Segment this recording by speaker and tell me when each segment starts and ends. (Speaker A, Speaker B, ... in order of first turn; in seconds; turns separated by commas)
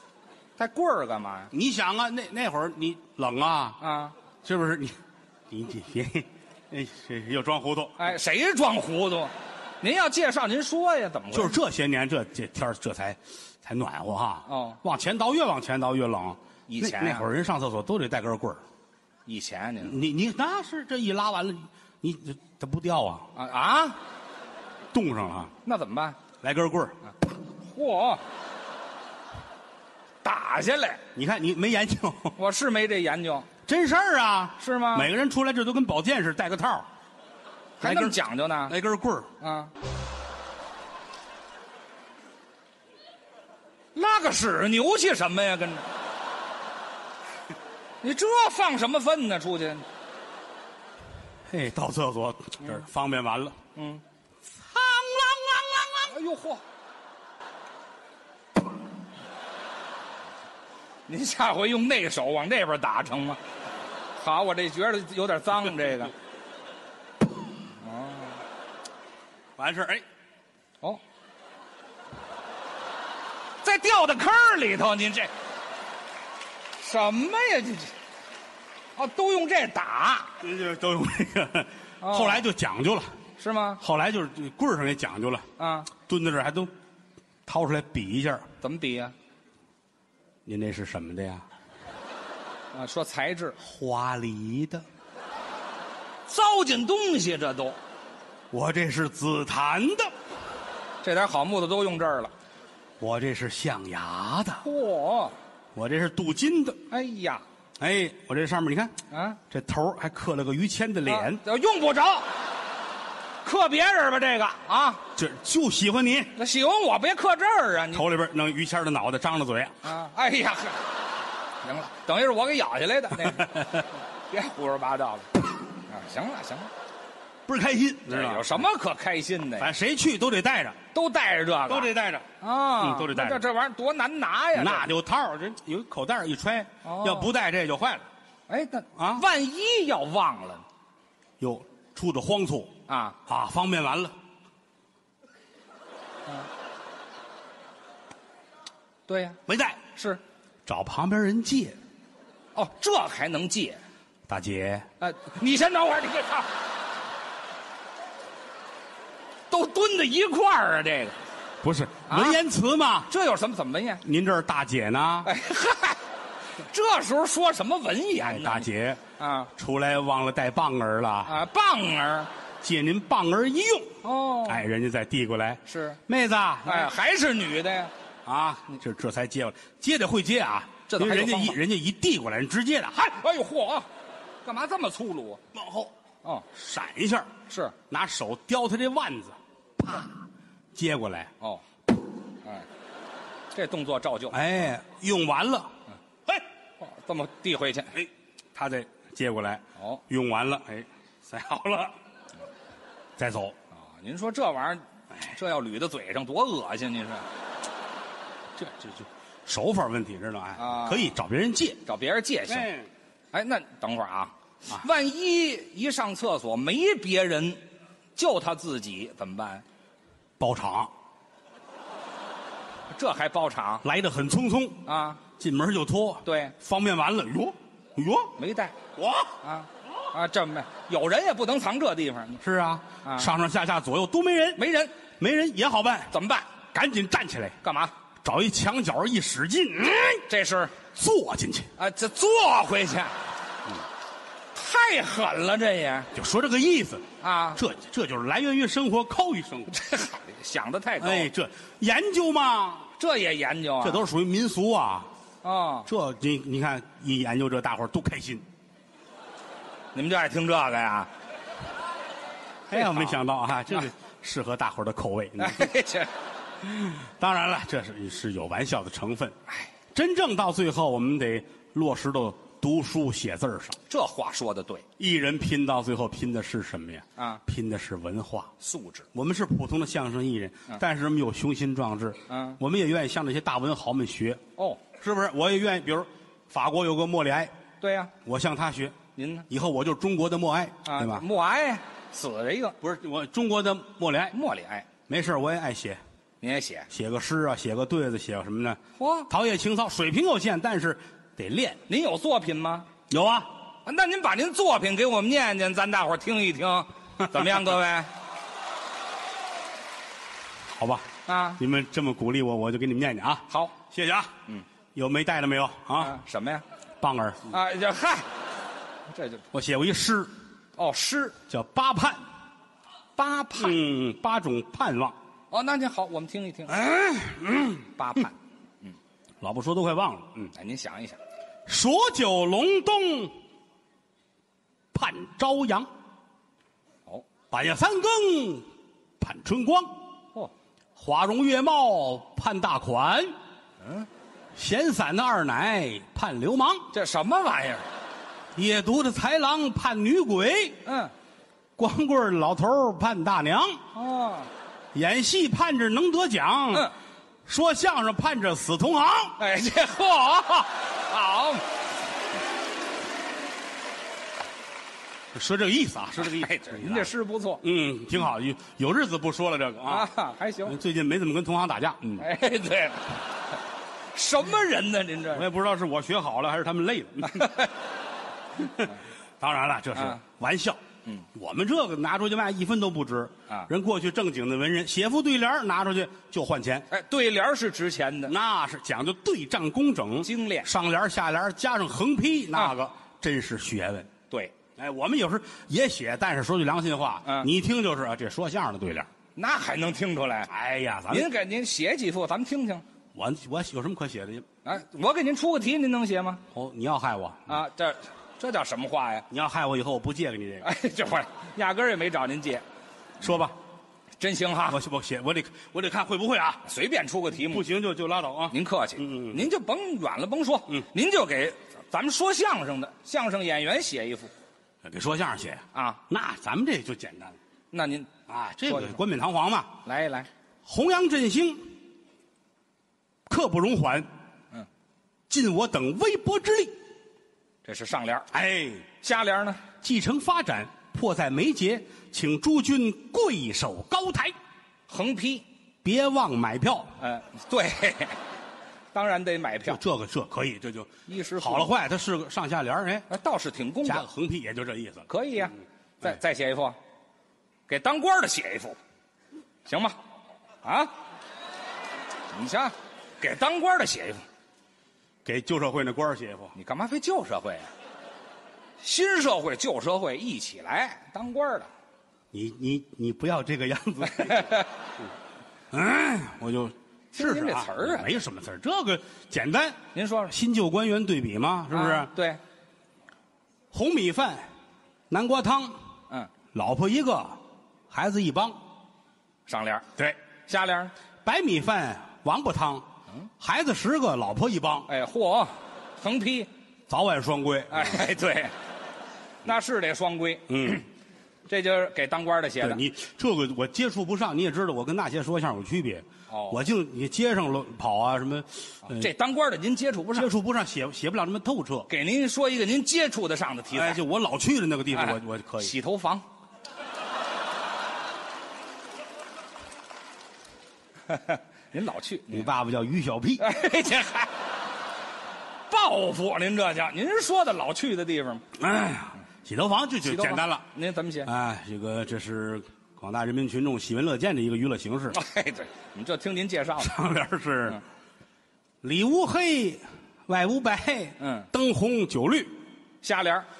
Speaker A: 0.6-1.5, Speaker B: 1.5-3.8, Speaker A: 3.8-4.1, Speaker B: 4.4-8.1, Speaker A: 8.0-11.6, Speaker B: 11.3-18.6, Speaker A: 14.5-14.8, Speaker A: 16.7-17.3, Speaker A: 19.2-20.0, Speaker B: 19.8-23.3, Speaker A: 23.3-24.0, Speaker B: 24.9-25.5, Speaker A: 25.6-26.2, Speaker B: 26.4-27.0, Speaker A: 27.6-28.2, Speaker A: 30.2-31.0, Speaker B: 31.1-32.4, Speaker A: 32.4-33.5, Speaker B: 33.6-36.9, Speaker A: 34.6-35.1, Speaker A: 37.8-38.7, Speaker B: 37.8-39.3, Speaker A: 39.4-39.7, Speaker A: 43.9-45.8, Speaker A: 48.0-49.8, Speaker B: 51.5-53.6, Speaker A: 53.8-54.0, Speaker B: 54.5-56.1, Speaker A: 56.0-56.6, Speaker A: 61.1-63.4, Speaker A: 64.2-66.1, Speaker A: 67.8-68.4, Speaker B: 69.6-70.0, Speaker A: 73.6-75.3, Speaker A: 76.8-77.9, Speaker A: 79.0-80.3, Speaker B: 80.4-83.1, Speaker A: 82.0-82.5, Speaker A: 83.4-83.8, Speaker B: 83.8-86.7, Speaker A: 85.6-85.9, Speaker B: 87.5-88.5, Speaker A: 88.6-89.1, Speaker B: 90.5-91.5, Speaker A: 92.7-93.5, Speaker B: 93.6-94.8, Speaker A: 96.3-97.8, Speaker B: 98.5-100.1, Speaker A: 101.0-102.3, Speaker B: 103.0-104.6, Speaker A: 104.6-105.3, Speaker B: 105.7-106.8, Speaker A: 106.9-107.4, Speaker B: 107.8-109.0, Speaker A: 109.1-109.4, Speaker B: 109.5-111.4, Speaker A: 111.0-112.3, Speaker A: 113.4-115.0, Speaker B: 115.2-116.3, Speaker A: 116.3-118.0, Speaker B: 117.9-119.8, Speaker A: 119.8-120.8, Speaker A: 121.6-125.3, Speaker B: 123.2-123.8, Speaker A: 125.9-126.7, Speaker B: 127.5-128.6, Speaker A: 128.1-129.7, Speaker B: 129.6-130.8, Speaker A: 130.9-134.9, Speaker B: 131.7-133.4, Speaker B: 134.5-138.1, Speaker A: 136.8-137.3, Speaker A: 138.5-140.6, Speaker B: 138.9-139.2, Speaker B: 141.4-144.1, Speaker A: 142.9-143.2, Speaker A: 149.1-149.4, Speaker B: 149.5-149.8, Speaker A: 149.9-150.2, Speaker B: 150.7-151.8, Speaker A: 152.5-153.8, Speaker B: 154.3-154.9, Speaker A: 155.0-156.5, Speaker A: 159.5-161.2, Speaker B: 161.6-163.1, Speaker A: 162.1-162.4, Speaker A: 163.1-164.0, Speaker B: 164.0-165.3, Speaker A: 165.2-166.0, Speaker A: 166.6-168.7, Speaker B: 168.2-169.0, Speaker A: 169.2-169.5, Speaker B: 169.5-171.3, Speaker A: 171.2-172.3, Speaker B: 172.6-176.9, Speaker A: 174.0-174.6, Speaker A: 175.7-176.0, Speaker A: 176.6-177.9, Speaker B: 178.2-183.2, Speaker A: 180.9-181.6, Speaker A: 183.2-183.9, Speaker A: 184.4-185.4, Speaker B: 185.5-185.9, Speaker B: 186.5-187.3, Speaker A: 187.5-187.8, Speaker B: 187.9-190.1, Speaker B: 190.7-191.3, Speaker A: 193.5-194.4, Speaker B: 194.3-195.7, Speaker A: 196.8-197.9, Speaker B: 197.9-201.9, Speaker B: 203.2-203.6, Speaker A: 203.7-207.2, Speaker B: 208.6-211.8, Speaker A: 210.6-211.1, Speaker A: 211.8-212.7, Speaker B: 212.5-212.9, Speaker A: 213.3-217.6, Speaker A: 218.2-219.6, Speaker B: 220.4-220.9, Speaker A: 222.9-223.8, Speaker B: 223.8-224.8, Speaker A: 224.8-225.2, Speaker B: 225.4-228.3, Speaker A: 226.2-226.5, Speaker A: 228.4-228.8, Speaker B: 228.9-229.3, Speaker A: 229.4-232.4, Speaker B: 232.4-236.1, Speaker A: 233.0-233.3, Speaker A: 234.6-234.9, Speaker A: 236.1-236.5, Speaker B: 236.7-237.6, Speaker A: 237.6-237.9, Speaker B: 238.2-240.2, Speaker A: 240.3-240.7, Speaker B: 240.9-241.7, Speaker A: 241.8-243.1, Speaker A: 244.5-246.1, Speaker B: 246.1-249.7, Speaker A: 247.2-247.6, Speaker A: 249.7-251.3, Speaker B: 251.0-252.9, Speaker A: 253.0-254.1, Speaker B: 253.8-255.1, Speaker A: 255.4-255.9, Speaker B: 255.8-258.4, Speaker A: 259.9-261.1, Speaker B: 262.7-265.7, Speaker A: 262.7-263.2, Speaker A: 265.4-266.1, Speaker B: 266.6-269.4, Speaker B: 269.9-273.8, Speaker A: 273.9-274.8, Speaker B: 275.0-278.5, Speaker A: 278.6-279.1, Speaker B: 279.1-284.4, Speaker A: 282.3-282.6, Speaker A: 284.6-284.8, Speaker B: 285.0-287.5, Speaker A: 287.8-288.1, Speaker B: 288.2-289.0, Speaker A: 289.1-289.5, Speaker B: 289.5-291.2, Speaker A: 290.8-292.8, Speaker B: 292.8-294.4, Speaker A: 294.3-294.9, Speaker B: 295.1-296.0, Speaker A: 296.4-296.9, Speaker B: 296.9-301.8, Speaker A: 299.0-299.3, Speaker A: 301.9-302.9, Speaker B: 303.1-303.5, Speaker A: 303.9-308.1, Speaker B: 310.7-314.3, Speaker A: 311.3-311.6, Speaker A: 313.5-313.7, Speaker B: 314.9-316.2, Speaker A: 316.0-316.6, Speaker B: 317.0-317.5, Speaker A: 317.5-318.3, Speaker A: 319.1-319.4, Speaker B: 319.5-320.3, Speaker A: 320.8-321.4, Speaker B: 321.5-322.2, Speaker A: 323.2-323.8, Speaker B: 323.6-325.1, Speaker A: 325.5-326.8, Speaker B: 326.7-327.9, Speaker A: 327.9-328.9, Speaker B: 329.4-330.5, Speaker A: 330.5-331.2, Speaker B: 331.6-333.4, Speaker B: 334.9-335.9, Speaker B: 337.5-338.7, Speaker B: 339.2-340.0, Speaker B: 341.0-343.4, Speaker A: 343.8-344.1, Speaker B: 344.5-346.9, Speaker A: 346.9-347.9, Speaker B: 348.6-350.8, Speaker A: 350.8-351.1, Speaker B: 351.8-353.8, Speaker A: 353.9-354.5, Speaker B: 354.9-356.9, Speaker B: 357.4-359.4, Speaker A: 359.4-361.7, Speaker B: 365.3-370.1, Speaker A: 366.2-367.6, Speaker A: 369.9-370.8, Speaker B: 370.6-372.3, Speaker A: 372.2-373.2, Speaker A: 374.1-375.4, Speaker B: 375.3-377.5, Speaker A: 377.2-377.7, Speaker B: 378.6-380.8, Speaker A: 379.9-380.2, Speaker B: 381.3-386.9, Speaker A: 386.9-388.3, Speaker B: 388.2-394.1, Speaker A: 390.2-390.7, Speaker B: 394.8-399.1, Speaker A: 399.4-400.5, Speaker B: 400.5-401.3, Speaker A: 401.1-402.8, Speaker B: 403.1-404.4, Speaker A: 404.6-406.4, Speaker B: 406.5-407.6, Speaker A: 407.5-409.2, Speaker B: 409.3-410.7, Speaker A: 410.6-412.6, Speaker B: 413.2-413.6, Speaker A: 414.2-414.8, Speaker B: 414.7-416.6, Speaker A: 416.6-417.6, Speaker B: 417.5-419.5, Speaker A: 418.5-424.3, Speaker B: 424.8-427.4, Speaker A: 425.7-426.0, Speaker A: 427.7-428.1, Speaker B: 428.3-429.8, Speaker A: 428.6-429.0, Speaker A: 429.8-430.3, Speaker B: 430.6-431.7, Speaker B: 433.3-434.1, Speaker B: 435.3-436.8, Speaker A: 437.6-438.3, Speaker B: 438.3-438.9, Speaker A: 439.0-439.6, Speaker B: 439.8-444.3, Speaker A: 444.9-445.4, Speaker B: 445.8-446.9, Speaker A: 447.0-448.2, Speaker A: 448.9-449.8, Speaker B: 449.6-453.1, Speaker A: 451.1-451.7, Speaker A: 453.1-454.1, Speaker B: 453.8-455.1, Speaker A: 455.1-456.8, Speaker A: 457.7-458.8, Speaker A: 459.6-460.0, Speaker A: 460.6-460.9, Speaker A: 462.3-464.2, Speaker B: 465.2-466.5, Speaker A: 466.5-467.7, Speaker A: 468.8-471.7, Speaker B: 472.3-475.0, Speaker A: 474.1-474.7, Speaker B: 475.7-482.1, Speaker A: 477.1-478.2, Speaker A: 479.9-480.3, Speaker A: 481.7-482.4, Speaker B: 483.7-484.5, Speaker B: 485.1-485.8, Speaker B: 486.5-488.6, Speaker A: 489.5-489.9, Speaker A: 490.5-490.9, Speaker B: 491.2-492.9, Speaker B: 493.4-494.9, Speaker A: 494.9-496.5, Speaker B: 496.9-498.0, Speaker A: 497.7-498.5, Speaker A: 499.4-500.8, Speaker B: 500.5-500.8, Speaker A: 501.5-502.8, Speaker B: 502.6-509.1, Speaker A: 506.3-506.6, Speaker A: 508.8-510.3, Speaker B: 510.1-511.9, Speaker A: 511.9-514.0, Speaker B: 513.7-515.7, Speaker A: 514.9-516.2, Speaker A: 521.1-522.5, Speaker B: 522.3-523.5, Speaker A: 523.4-524.3, Speaker A: 525.7-528.4, Speaker B: 528.5-530.6, Speaker A: 530.0-531.3, Speaker B: 531.2-535.2, Speaker A: 535.1-536.9, Speaker B: 536.8-537.8, Speaker B: 538.8-542.6, Speaker A: 541.2-541.5, Speaker A: 543.0-543.5